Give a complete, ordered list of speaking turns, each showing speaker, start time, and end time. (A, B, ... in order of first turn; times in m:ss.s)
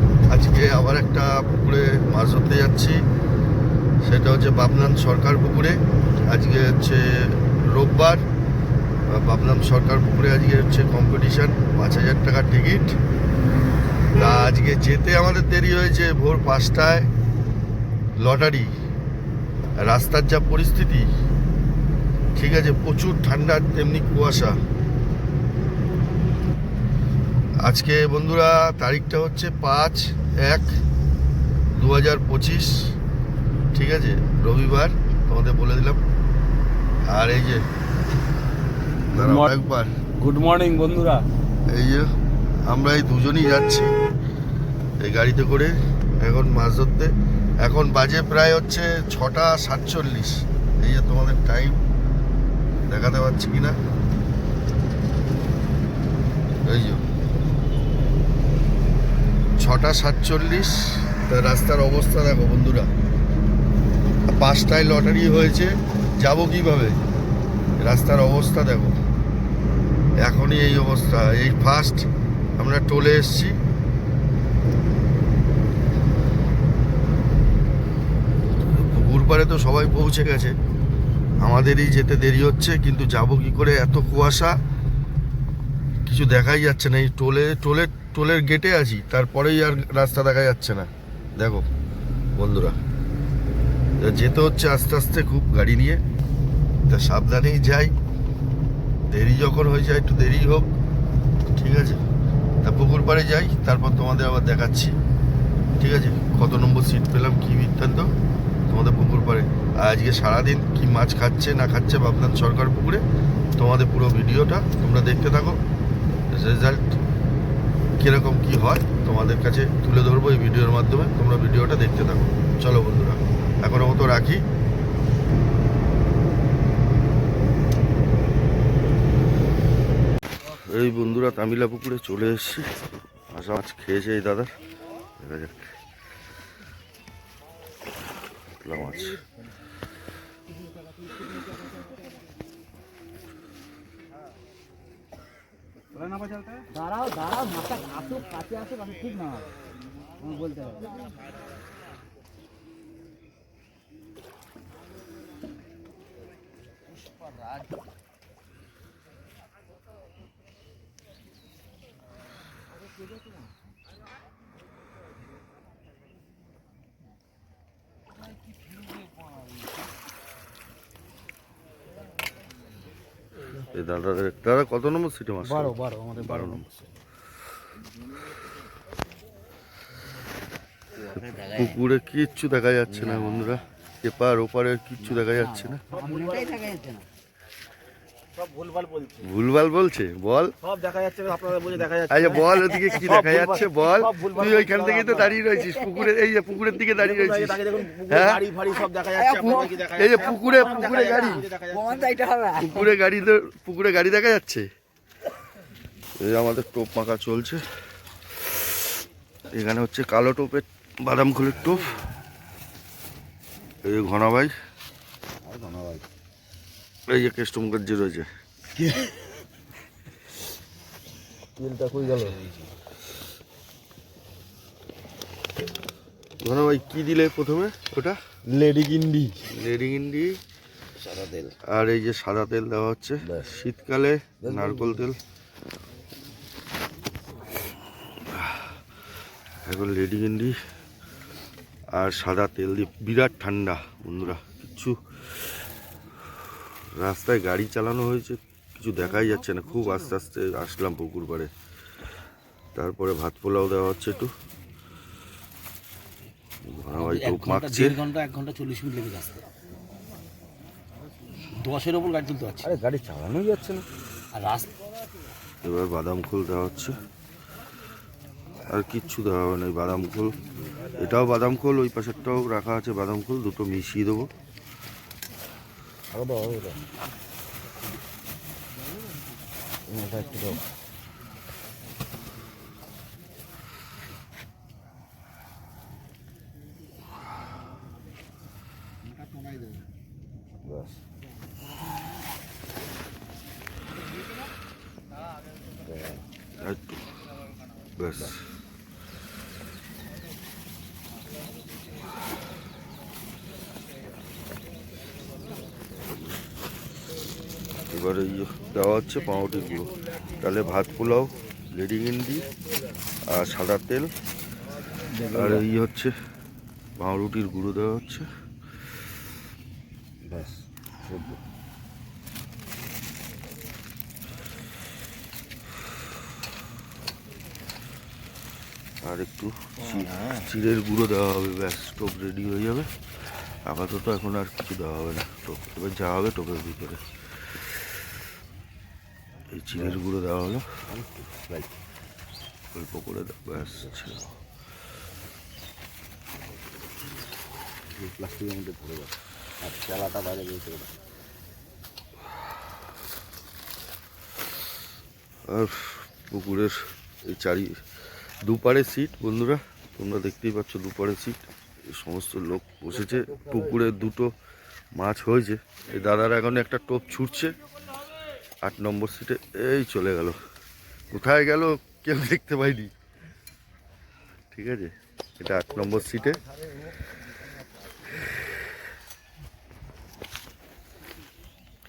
0:00.3-0:03.0 A
0:04.0-0:08.2 A
0:09.1-0:13.0 A
0:14.1-0:17.1 A
0:18.2-0:18.7 A
0:19.8-0:21.1 A
0:22.4-0:24.6 A
0:27.6-0:30.8 A
0:31.8-0:32.9 A
0:33.7-0:36.0 A
0:37.1-0:37.6 A
0:39.1-0:39.9 A
0:39.2-0:39.5 B
0:40.2-0:41.3 B
0:41.7-0:42.1 A
0:42.7-0:43.9 A
0:45.0-0:51.8 A
0:52.9-0:53.8 A
0:56.6-0:57.0 A
0:59.6-1:02.9 A
1:04.3-1:07.0 A
1:07.8-1:09.0 A
1:10.2-1:13.6 A
1:18.7-1:20.6 A
1:21.4-1:24.6 A
1:26.1-1:31.7 A
1:32.4-1:32.8 A
1:34.0-1:36.0 A
1:36.9-1:37.9 A
1:39.1-1:40.7 A
1:41.6-1:42.0 A
1:42.6-1:45.0 A
1:45.8-1:48.1 A
1:48.7-1:53.0 A
1:53.6-1:55.6 A
1:56.3-1:57.0 A
1:58.0-2:04.4 A
2:10.5-2:14.5 A
2:15.2-2:15.8 A
2:18.6-2:19.2 A
2:25.9-2:26.6 B
2:26.7-2:29.5 C
2:30.2-2:31.0 C
2:53.7-2:56.7 A
3:01.2-3:05.8 A
3:05.2-3:07.0 C
3:05.9-3:06.6 B
3:08.4-3:09.3 B
3:09.2-3:10.5 A
3:10.6-3:15.4 B
3:12.1-3:18.5 A
3:15.5-3:16.0 C
3:17.0-3:22.2 B
3:19.1-3:22.9 C
3:19.4-3:21.5 A
3:22.6-3:24.7 A
3:26.2-3:27.6 A
3:28.4-3:28.9 A
3:29.5-3:31.9 A
3:33.8-3:34.5 A
3:35.5-3:36.0 C
3:37.1-3:38.3 A
3:41.6-3:42.4 A
3:46.4-3:50.4 A
3:51.6-3:55.2 A
3:58.2-3:58.8 A
3:59.6-4:00.6 A
4:01.9-4:05.5 A
4:06.9-4:11.5 A
4:12.8-4:14.3 A
4:16.6-4:18.0 A
4:16.9-4:19.4 D
4:21.6-4:22.8 D
4:22.7-4:23.8 A
4:24.4-4:24.7 D
4:25.6-4:27.0 A
4:28.7-4:30.4 A
4:31.0-4:34.3 A
4:36.2-4:36.5 C
4:56.6-4:56.9 A
4:58.0-4:58.4 A
5:07.9-5:12.5 A
5:13.3-5:14.1 A
5:15.3-5:16.1 A
5:17.0-5:18.3 A
5:29.0-5:37.8 A
5:39.5-5:40.8 A
5:41.0-5:41.6 E
5:42.7-5:44.3 A
5:48.0-5:49.1 E
5:49.6-5:49.9 E
5:49.8-5:50.8 C
5:55.5-5:57.8 A
5:58.4-6:04.3 A
6:05.0-6:07.6 A
6:08.6-6:10.4 A
6:11.1-6:12.9 A
6:14.5-6:16.4 A